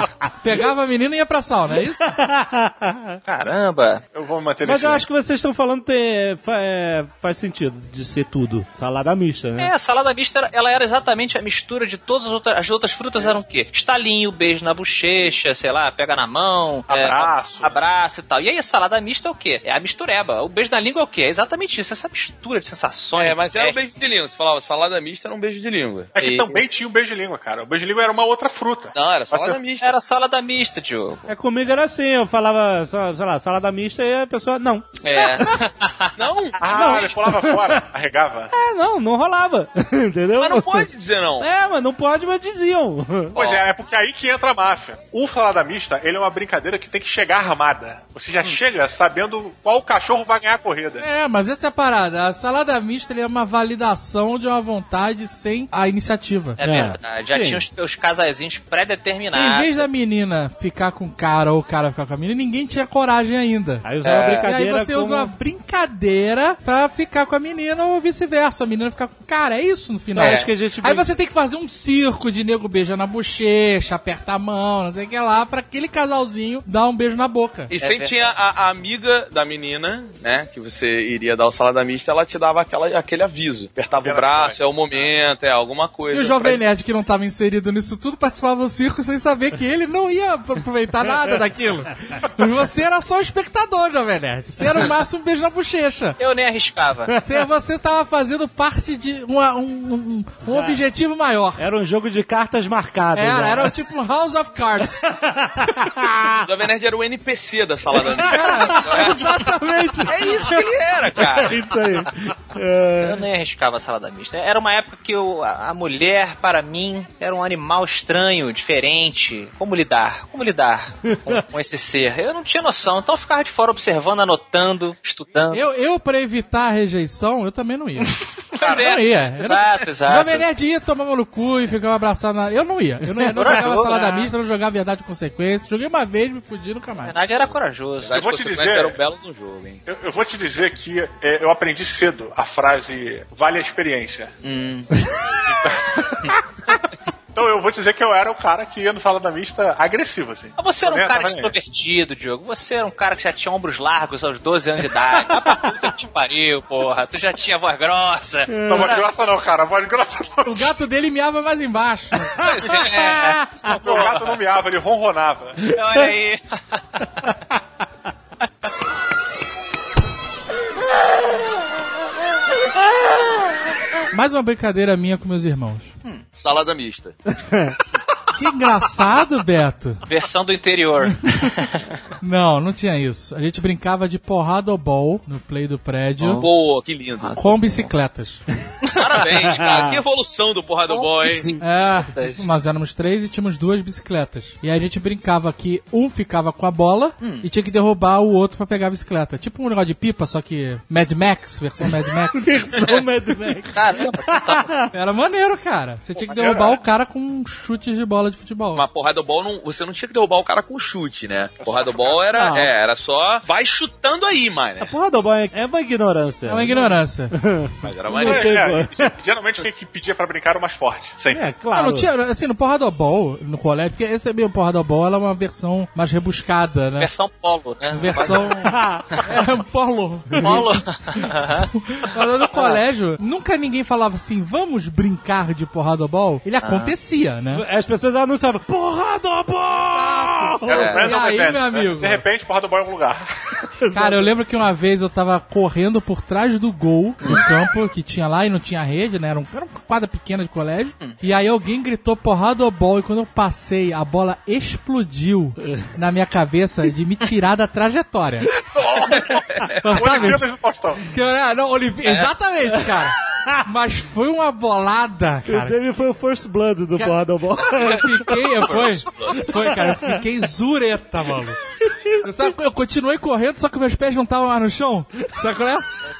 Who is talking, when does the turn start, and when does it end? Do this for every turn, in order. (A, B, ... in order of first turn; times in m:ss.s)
0:00.4-0:02.0 A
0:02.0-0:03.2 B
0:03.3-0:04.0 C
0:04.1-0:05.0 D
0:04.6-0:09.7 B
0:09.6-0:23.8 C
0:16.9-0:17.8 D
0:23.2-0:26.1 E
0:26.2-0:29.6 D
0:26.2-0:26.6 C
0:28.9-0:30.0 E
0:29.8-0:31.3 C
0:31.3-0:35.5 B
0:35.0-0:36.5 C
0:36.2-0:37.0 E
0:36.6-0:38.5 D
0:36.7-0:37.8 B
0:38.5-0:43.4 B
0:40.4-0:41.5 E
0:43.3-0:51.0 D
0:51.0-0:56.6 A
0:56.6-0:59.8 C
0:56.6-0:57.6 B
0:59.3-1:03.9 A
1:03.8-1:05.3 B
1:04.0-1:04.5 E
1:04.4-1:17.7 A
1:10.2-1:11.1 B
1:10.2-1:10.5 C
1:17.7-1:26.6 E
1:17.8-1:18.3 C
1:24.0-1:25.1 D
1:26.1-1:36.2 A
1:36.2-1:37.1 C
1:37.2-1:41.6 A
1:40.4-1:40.8 B
1:41.6-1:43.7 B
1:43.1-1:45.1 A
1:45.0-1:46.4 B
1:46.4-1:49.3 E
1:48.2-1:50.6 A
1:50.0-1:51.6 E
1:51.4-1:53.2 B
1:53.0-2:05.6 C
2:01.1-2:01.4 B
2:05.5-2:17.1 A
2:08.1-2:10.4 C
2:13.0-2:14.3 B
2:13.4-2:14.0 C
2:17.0-2:18.2 C
2:18.0-2:19.8 E
2:18.1-2:19.0 D
2:19.8-2:24.3 D
2:24.4-2:24.9 C
2:25.4-2:26.8 D
2:27.3-2:31.5 D
2:30.6-2:39.0 C
2:35.3-2:35.7 B
2:38.5-2:39.0 B
2:38.6-2:40.7 D
2:40.4-2:42.4 A
2:42.4-2:43.5 B
2:42.5-2:44.4 C
2:42.6-2:42.9 E
2:43.6-2:45.7 D
2:45.6-2:47.2 C
2:54.1-2:55.9 A
2:56.3-2:57.1 E
2:58.3-3:00.0 A
3:00.0-3:01.8 C
3:02.2-3:06.4 A
3:06.2-3:07.3 E
3:07.2-3:07.9 C
3:07.4-3:08.4 A
3:08.8-3:09.3 C
3:09.0-3:11.5 E
3:09.5-3:10.0 B
3:10.9-3:12.4 C
3:11.6-3:22.5 A
3:17.2-3:17.5 C
3:22.3-3:24.8 B
3:23.7-3:24.8 C
3:24.9-3:28.8 A
3:26.4-3:26.7 D
3:28.7-3:34.9 E
3:31.6-3:32.2 D
3:32.3-3:32.7 B
3:34.8-3:39.1 B
3:36.4-3:37.3 A
3:37.8-3:38.6 E
3:38.2-3:41.4 D
3:41.3-3:42.1 B
3:41.7-3:47.1 A
3:47.0-3:48.5 C
3:47.9-3:50.6 A
3:48.6-3:49.2 B
3:50.3-3:50.7 B
3:50.4-3:51.7 C
3:51.7-3:57.6 A
3:52.5-3:52.8 C
3:56.6-3:56.9 C
3:57.5-4:01.0 B
3:59.8-4:02.2 A
4:00.6-4:03.3 D
4:00.7-4:01.1 E
4:03.8-4:04.4 B
4:03.9-4:18.5 A
4:18.7-4:21.0 D
4:18.8-4:20.1 E
4:19.8-4:20.4 A
4:21.0-4:25.8 A
4:22.0-4:22.3 C
4:25.4-4:28.3 B
4:27.0-4:31.6 A
4:27.6-4:29.3 C
4:29.4-4:30.2 B
4:31.2-4:32.2 B
4:32.2-4:35.9 A